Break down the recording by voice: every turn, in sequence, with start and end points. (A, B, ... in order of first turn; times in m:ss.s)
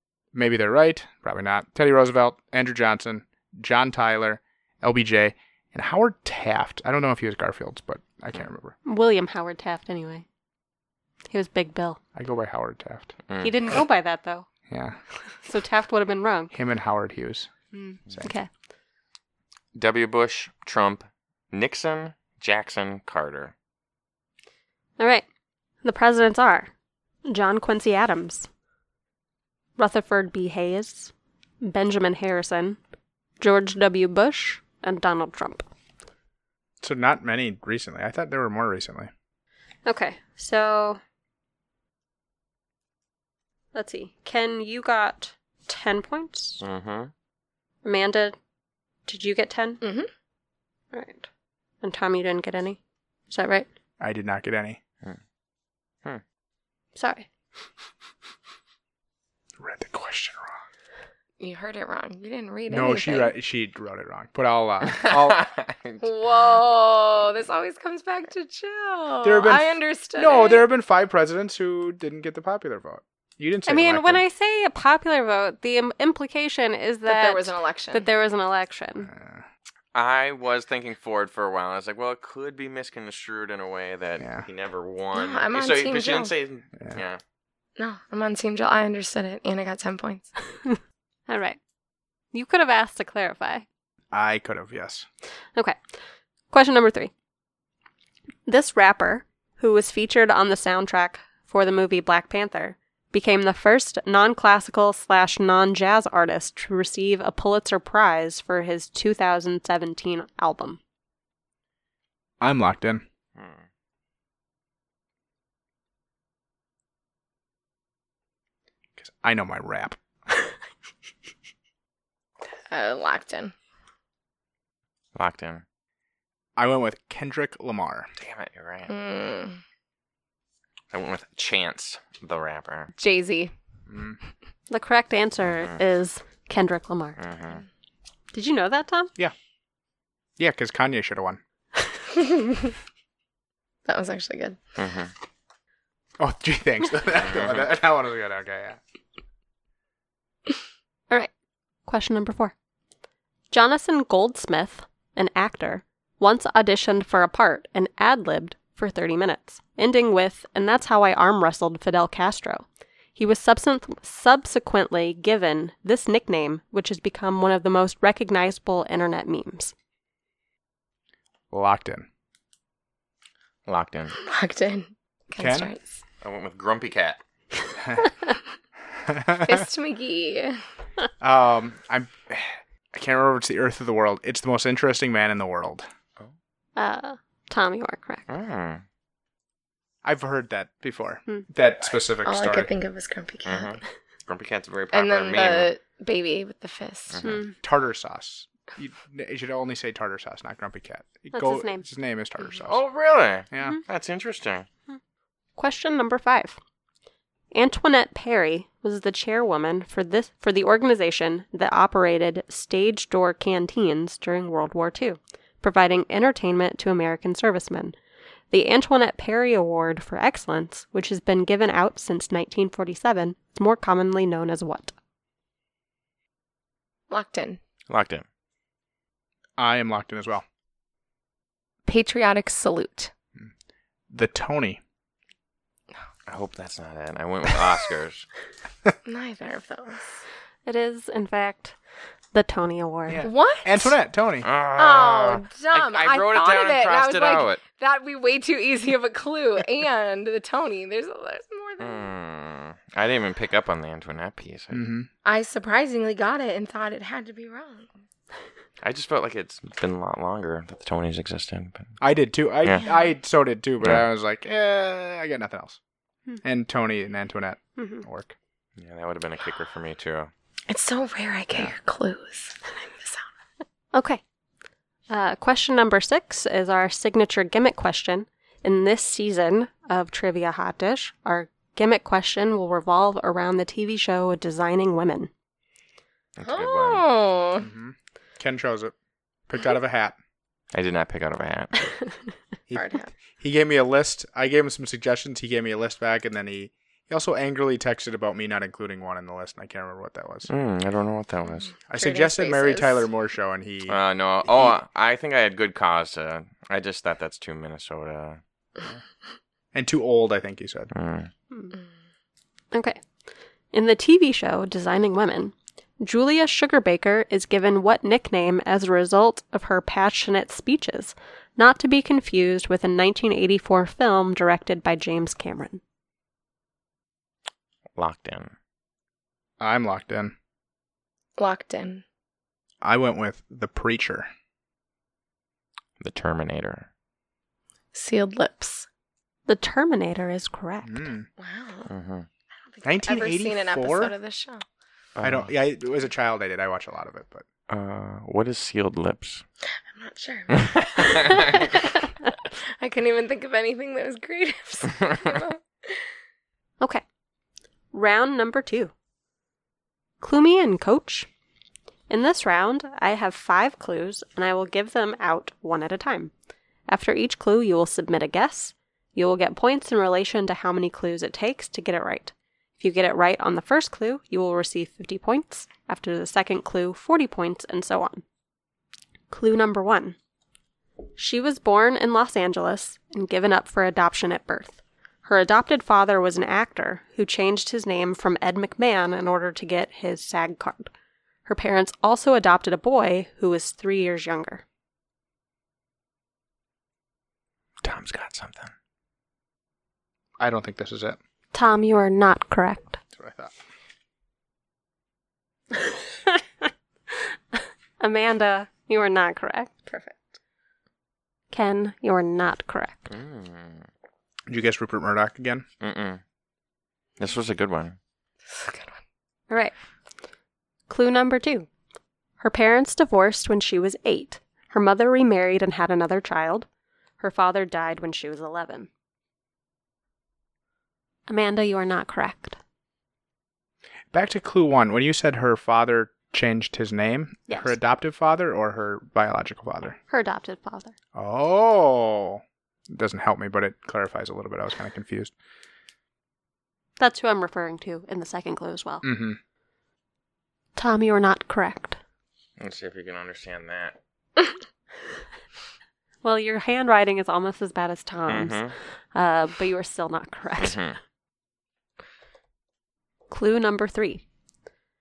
0:00.3-0:08.8 A
0:08.8-0:10.2 B
0:11.3-0:12.0 B
0:12.1-0:13.1 A
0:13.3-0:13.5 C
0:13.4-0:14.5 B
0:14.7-0:15.0 A
0:15.4-0:16.5 B
0:16.5-0:17.5 A
0:17.7-0:18.5 B
0:19.7-0:23.5 C
0:25.0-0:25.2 B
0:25.8-0:26.7 B
0:27.2-0:28.5 B
0:29.8-0:32.8 B
0:33.4-0:35.6 B
0:36.8-0:39.1 A
0:39.8-0:41.0 B
0:43.7-0:46.6 B
0:46.6-0:47.1 C
0:47.8-0:48.4 B
0:49.1-0:49.8 B
0:49.8-0:50.1 D
0:50.9-0:51.3 B
0:51.8-0:52.8 B
0:53.3-0:53.7 B
0:54.0-0:54.8 A
0:57.0-0:57.3 B
0:59.6-1:00.5 A
1:01.4-1:03.3 D
1:02.7-1:05.5 A
1:04.9-1:06.0 C
1:06.0-1:10.6 D
1:09.2-1:14.2 A
1:13.7-1:19.1 B
1:17.0-1:18.0 D
1:19.0-1:19.4 A
1:19.9-1:27.2 C
1:24.2-1:24.4 A
1:25.1-1:26.3 D
1:27.8-1:30.3 D
1:30.7-1:31.6 B
1:32.3-1:33.6 B
1:34.1-1:35.0 A
1:36.5-1:37.1 B
1:38.5-1:50.8 B
1:52.4-1:53.0 A
1:53.3-1:53.6 C
1:59.0-2:00.0 A
2:02.7-2:03.5 D
2:05.1-2:05.6 C
2:06.6-2:08.1 A
2:08.2-2:08.9 C
2:08.9-2:09.6 D
2:10.9-2:12.9 C
2:12.9-2:13.5 D
2:13.9-2:14.2 A
2:14.7-2:17.2 B
2:15.5-2:15.7 C
2:17.2-2:17.6 C
2:18.3-2:19.1 B
2:20.4-2:21.4 A
2:22.1-2:22.7 D
2:23.8-2:24.6 D
2:24.8-2:25.1 C
2:26.2-2:28.8 A
2:27.3-2:27.6 C
2:31.8-2:32.5 B
2:33.5-2:49.7 B
2:51.5-2:52.1 A
2:53.7-2:54.2 C
2:54.2-2:55.8 D
2:55.4-2:55.7 A
2:56.2-2:57.2 C
2:57.8-2:58.1 A
2:59.0-2:59.6 A
2:59.3-3:00.6 D
3:01.2-3:05.8 A
3:06.8-3:08.3 B
3:08.3-3:08.8 C
3:10.0-3:12.7 A
3:12.2-3:13.8 D
3:13.4-3:15.7 C
3:14.9-3:17.2 D
3:17.1-3:17.4 C
3:17.2-3:17.5 B
3:17.6-3:22.8 A
3:21.3-3:21.8 B
3:22.6-3:24.7 C
3:23.5-3:23.8 A
3:25.6-3:26.6 B
3:27.5-3:37.9 B
3:38.5-3:44.9 B
3:47.1-3:47.6 D
3:47.9-3:48.2 C
3:49.6-3:50.4 A
3:51.8-3:53.1 D
3:54.1-3:54.8 A
3:56.3-3:58.2 C
3:59.0-4:00.2 D
4:00.6-4:01.7 B
4:02.3-4:03.3 B
4:03.1-4:04.5 A
4:03.2-4:04.0 D
4:04.4-4:07.6 C
4:04.8-4:12.1 D
4:11.8-4:14.8 C
4:14.7-4:15.1 A
4:15.2-4:17.9 D
4:18.8-4:22.0 C
4:22.0-4:25.8 A
4:26.4-4:28.3 A
4:27.8-4:28.0 B
4:28.8-4:30.3 C
4:30.7-4:33.3 D
4:33.9-4:34.2 B
4:35.1-4:45.3 B
4:46.4-4:47.1 C
4:46.4-4:47.7 D
4:47.6-4:48.9 A
4:49.5-4:50.2 A
4:50.7-4:51.8 C
4:52.7-5:00.5 A
4:52.7-4:53.1 D
5:00.5-5:01.7 C
5:01.9-5:04.7 A
5:01.9-5:03.1 D
5:03.9-5:08.4 C
5:09.7-5:10.9 A
5:10.9-5:11.3 C
5:12.7-5:13.0 B
5:13.7-5:25.8 B
5:28.0-5:28.5 C
5:29.6-5:30.3 A
5:31.4-5:32.0 D
5:32.8-5:34.3 A
5:36.0-5:36.9 C
5:37.9-5:38.9 D
5:39.4-5:41.0 B
5:40.8-5:41.3 A
5:41.4-5:41.9 D
5:41.9-5:42.3 C
5:42.7-5:44.6 D
5:42.8-5:44.1 A
5:45.2-5:45.5 C
5:45.2-5:47.4 A
5:47.7-5:49.4 C
5:49.9-5:52.0 D
5:50.5-5:51.7 C
5:52.8-5:56.1 D
5:57.9-5:58.9 B
6:00.2-6:01.3 B
6:02.1-6:06.3 B
6:06.9-6:18.2 B
6:19.3-6:20.2 B
6:21.2-6:30.9 B
6:31.4-6:34.6 B
6:37.8-6:38.7 C
6:40.4-6:41.2 A
6:41.5-6:43.0 B
6:43.1-6:43.5 A
6:47.5-6:49.9 B
6:49.9-6:50.2 D
6:51.5-6:53.1 B
6:53.1-6:53.9 C
6:54.5-6:55.6 A
6:55.8-6:56.2 C
6:57.2-6:58.0 C
6:58.4-6:59.0 D
7:00.9-7:01.7 B
7:02.4-7:06.7 B
7:07.2-7:08.9 B
7:11.3-7:12.6 B
7:14.1-7:20.0 A
7:17.5-7:17.7 B
7:20.1-7:20.9 B
7:21.1-7:25.3 A
7:27.0-7:29.0 B
7:29.0-7:29.4 A
7:30.8-7:32.0 B
7:32.6-7:34.0 C
7:36.2-7:38.6 B
7:38.3-7:38.7 C
7:39.1-7:40.8 B
7:40.6-7:41.0 C
7:43.3-7:44.2 B